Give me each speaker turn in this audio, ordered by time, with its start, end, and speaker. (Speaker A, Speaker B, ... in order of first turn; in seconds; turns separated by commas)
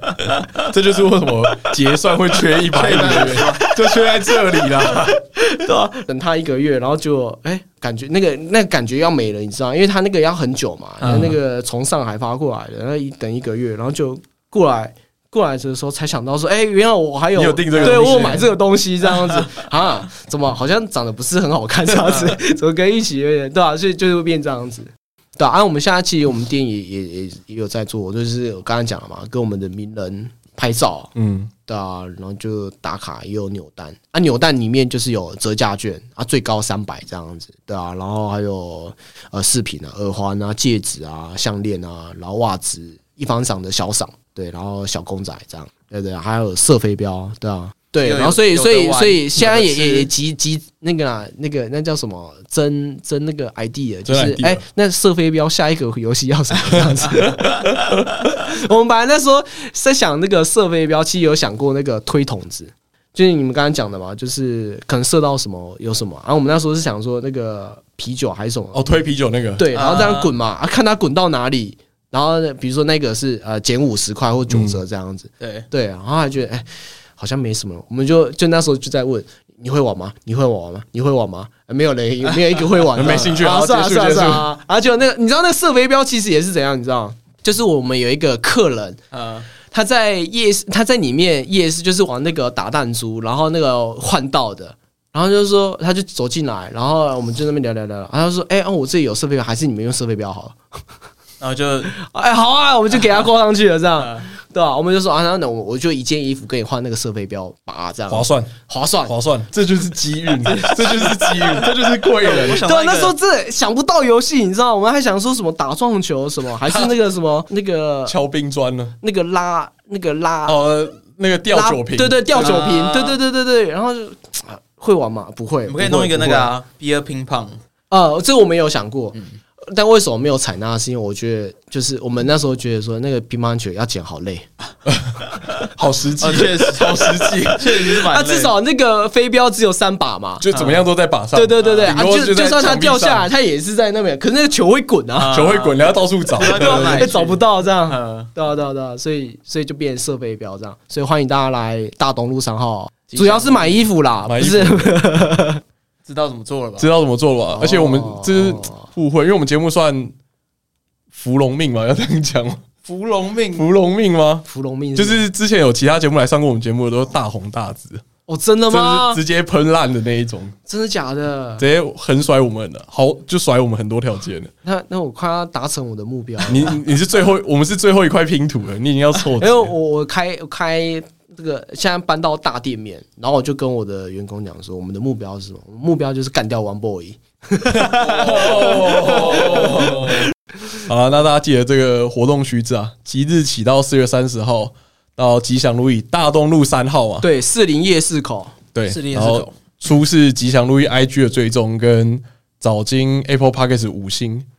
Speaker A: 0.5-5.2, Speaker B: 2.7-3.7, Speaker C: 3.0-3.5, Speaker C: 5.3-31.1, Speaker B: 11.0-11.3, Speaker A: 17.4-18.4, Speaker B: 17.7-18.3, Speaker A: 31.1-31.5, Speaker C: 31.6-68.8, Speaker B: 48.0-50.1, Speaker A: 54.1-54.6, Speaker A: 56.9-57.7, Speaker A: 68.7-69.7, Speaker C: 69.6-89.0, Speaker B: 69.7-70.3, Speaker A: 74.5-74.8, Speaker B: 75.4-75.7, Speaker A: 82.9-84.5, Speaker B: 89.1-89.5, Speaker C: 89.6-100.6, Speaker B: 101.4-101.9, Speaker C: 101.9-109.1, Speaker B: 104.0-104.2, Speaker A: 108.1-108.5, Speaker A: 109.0-112.6, Speaker B: 110.4-113.1, Speaker C: 112.6-118.2, Speaker A: 118.0-119.0, Speaker C: 119.0-120.6, Speaker A: 120.5-122.6, Speaker C: 121.5-126.5, Speaker B: 122.3-123.2, Speaker B: 125.7-127.6, Speaker C: 127.9-129.2, Speaker C: 129.7-134.5, Speaker A: 134.8-137.9, Speaker B: 136.2-138.5, Speaker C: 137.8-140.4, Speaker A: 140.4-143.3, Speaker B: 140.5-140.8, Speaker C: 141.3-145.3, Speaker B: 141.6-142.0, Speaker B: 145.2-148.3, Speaker A: 145.3-147.2, Speaker C: 146.5-155.6, Speaker B: 153.1-153.8, Speaker A: 154.2-155.0, Speaker B: 156.1-156.9, Speaker A: 156.8-160.1, Speaker C: 157.5-158.9, Speaker A: 161.1-162.6, Speaker B: 162.8-163.7, Speaker A: 163.5-168.0, Speaker C: 164.4-165.2, Speaker C: 168.3-169.2, Speaker A: 168.7-170.6, Speaker C: 170.7-171.7, Speaker A: 171.6-174.5, Speaker C: 174.6-176.8, Speaker A: 176.5-179.7, Speaker C: 179.4-190.2, Speaker A: 187.7-190.2, Speaker B: 189.0-190.1, Speaker A: 190.9-197.2, Speaker C: 197.2-198.6, Speaker A: 198.7-204.4, Speaker B: 198.9-199.5